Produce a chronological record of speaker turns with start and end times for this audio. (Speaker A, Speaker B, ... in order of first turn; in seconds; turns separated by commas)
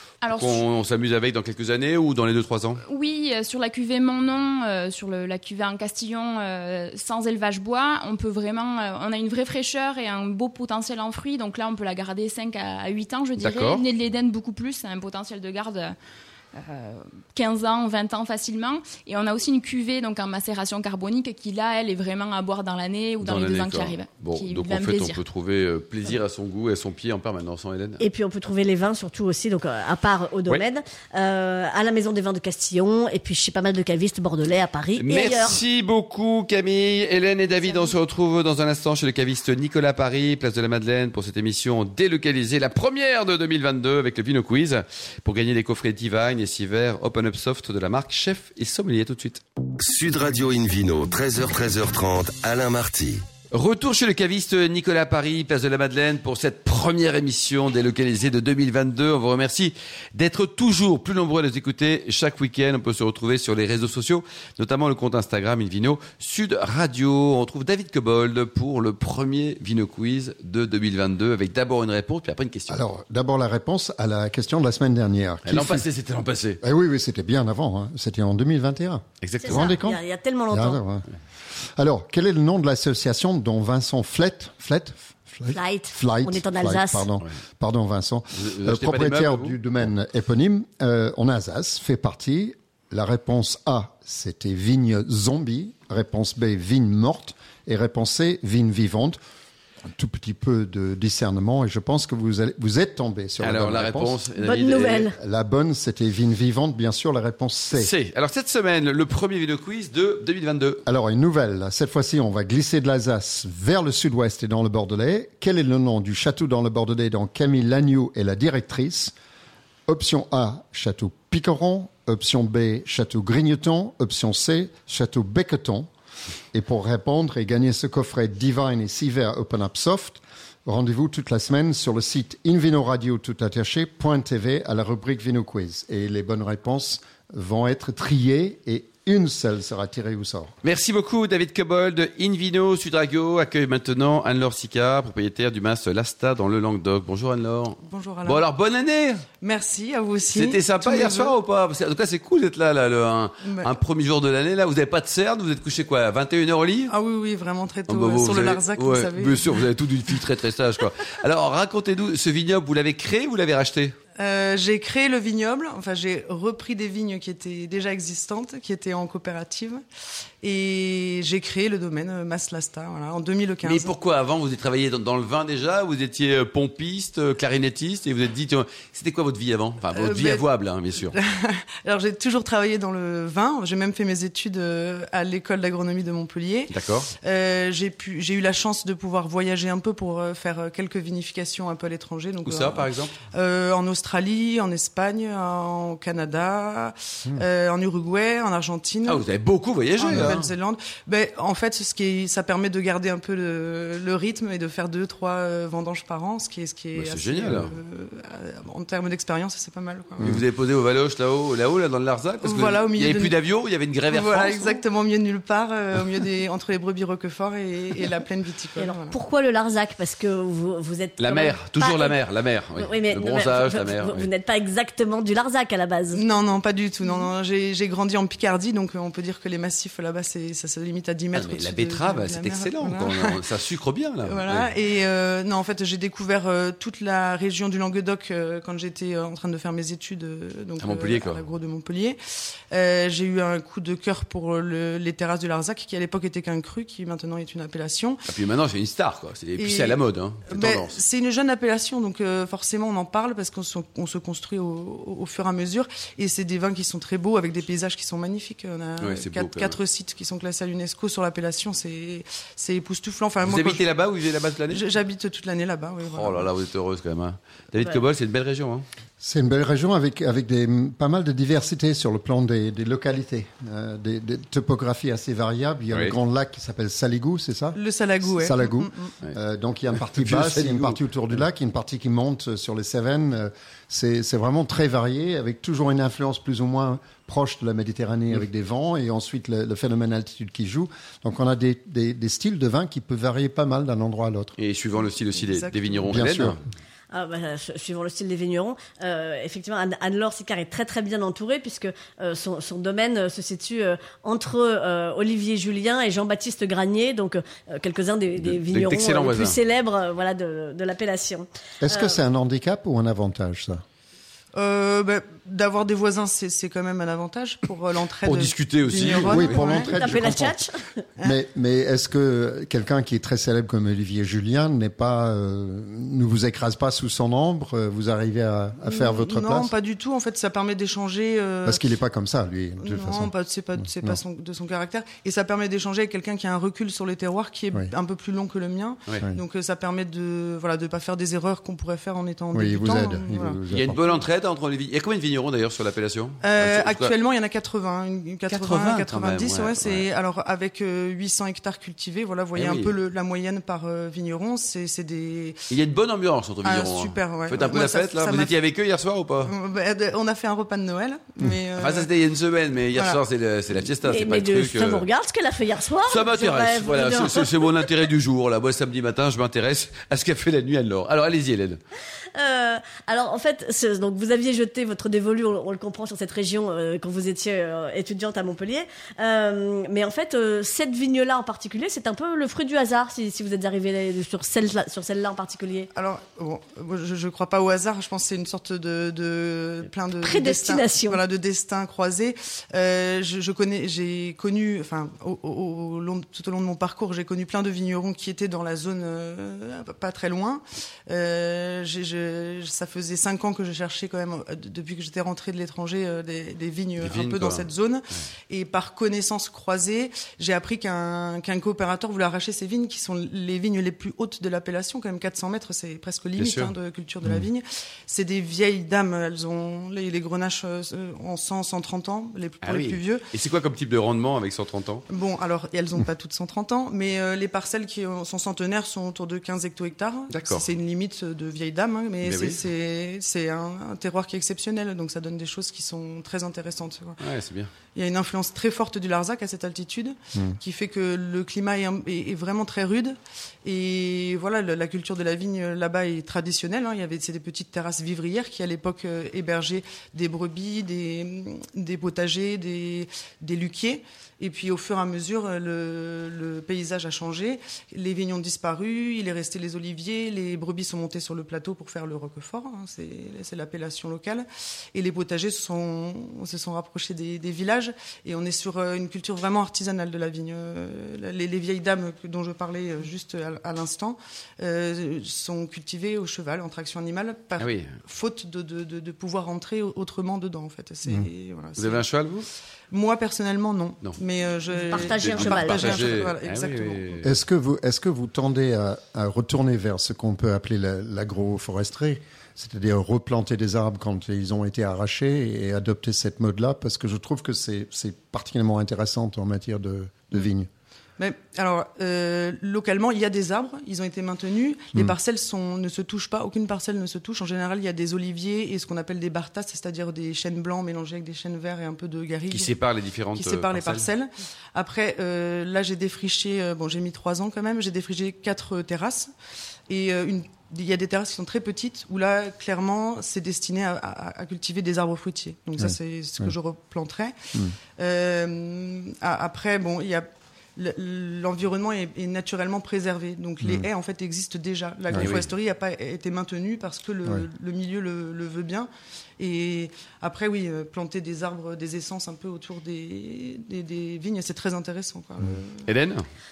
Speaker A: 0.2-0.6, Speaker B: 0.3-2.8, Speaker A: 2.8-15.9, Speaker B: 13.4-13.8, Speaker A: 16.5-25.2, Speaker B: 23.2-28.0, Speaker C: 28.0-35.6, Speaker B: 35.0-49.4, Speaker D: 49.8-53.2, Speaker B: 53.5-72.8, Speaker E: 72.7-75.8, Speaker B: 75.4-76.6, Speaker E: 76.6-81.0, Speaker B: 79.2-79.7, Speaker C: 79.4-80.8, Speaker E: 81.8-99.2, Speaker C: 85.5-87.1, Speaker B: 88.3-89.6, Speaker E: 99.9-104.2, Speaker B: 103.4-105.1, Speaker C: 104.4-105.2, Speaker E: 105.1-107.9, Speaker B: 107.7-110.8, Speaker E: 110.8-119.1, Speaker E: 119.9-125.9, Speaker E: 126.5-140.5, Speaker B: 140.6-149.2, Speaker F: 147.8-148.4, Speaker F: 149.4-151.3, Speaker B: 150.3-156.9, Speaker F: 153.4-153.7, Speaker F: 156.9-159.6, Speaker B: 157.9-163.9, Speaker F: 164.2-169.8, Speaker F: 170.4-173.9, Speaker B: 173.6-181.2, Speaker F: 179.9-180.4, Speaker F: 181.1-199.2, Speaker B: 186.7-187.1, Speaker B: 192.4-193.2, Speaker B: 199.1-200.5, Speaker F: 200.0-210.4, Speaker B: 206.9-207.7, Speaker B: 210.2-214.8, Speaker F: 212.4-213.3, Speaker F: 214.1-219.2, Speaker C: 218.8-222.2, Speaker B: 221.2-224.3, Speaker C: 222.8-226.2, Speaker F: 226.1-233.4, Speaker B: 231.3-234.7, Speaker F: 234.2-242.2, Speaker B: 240.8-241.4, Speaker F: 242.7-248.2, Speaker B: 248.3-251.0, Speaker F: 249.6-263.8, Speaker B: 259.0-259.8, Speaker B: 263.4-264.8, Speaker F: 264.7-266.5, Speaker B: 266.1-268.8, Speaker E: 269.2-294.6, Speaker F: 277.8-279.1, Speaker B: 280.1-281.0, Speaker B: 294.6-296.6, Speaker F: 295.3-296.1, Speaker E: 296.1-296.6, Speaker C: 297.1-312.2, Speaker B: 308.4-309.6, Speaker E: 311.8-313.8, Speaker F: 314.5-320.1, Speaker B: 318.2-319.6, Speaker E: 319.2-320.6, Speaker C: 319.6-320.9, Speaker E: 321.2-329.7, Speaker F: 328.9-331.8, Speaker E: 331.6-333.3, Speaker F: 332.8-343.6, Speaker E: 333.8-334.2, Speaker E: 342.5-344.0, Speaker B: 343.7-347.1, Speaker F: 346.4-355.6, Speaker B: 348.5-350.1, Speaker B: 352.5-352.9, Speaker B: 355.7-359.5, Speaker F: 356.6-358.5, Speaker F: 359.4-362.1, Speaker B: 361.8-365.0, Speaker F: 362.9-363.2, Speaker C: 364.0-367.9, Speaker B: 366.1-371.8, Speaker C: 372.3-385.9, Speaker F: 385.9-423.3, Speaker C: 390.2-391.2, Speaker B: 407.0-407.6, Speaker B: 416.4-416.7, Speaker B: 422.6-425.0, Speaker F: 425.1-437.2, Speaker B: 430.3-430.7, Speaker B: 432.2-432.6, Speaker B: 437.2-437.7, Speaker F: 437.9-482.0, Speaker B: 477.6-477.9, Speaker B: 481.8-482.5, Speaker F: 482.9-487.2, Speaker C: 484.9-486.1, Speaker B: 485.1-487.3, Speaker E: 487.2-500.7, Speaker F: 501.2-512.8, Speaker B: 512.5-514.1, Speaker F: 513.3-519.3, Speaker F: 519.9-527.4, Speaker E: 525.8-526.5, Speaker F: 527.9-545.9, Speaker B: 535.1-535.5, Speaker B: 545.9-546.2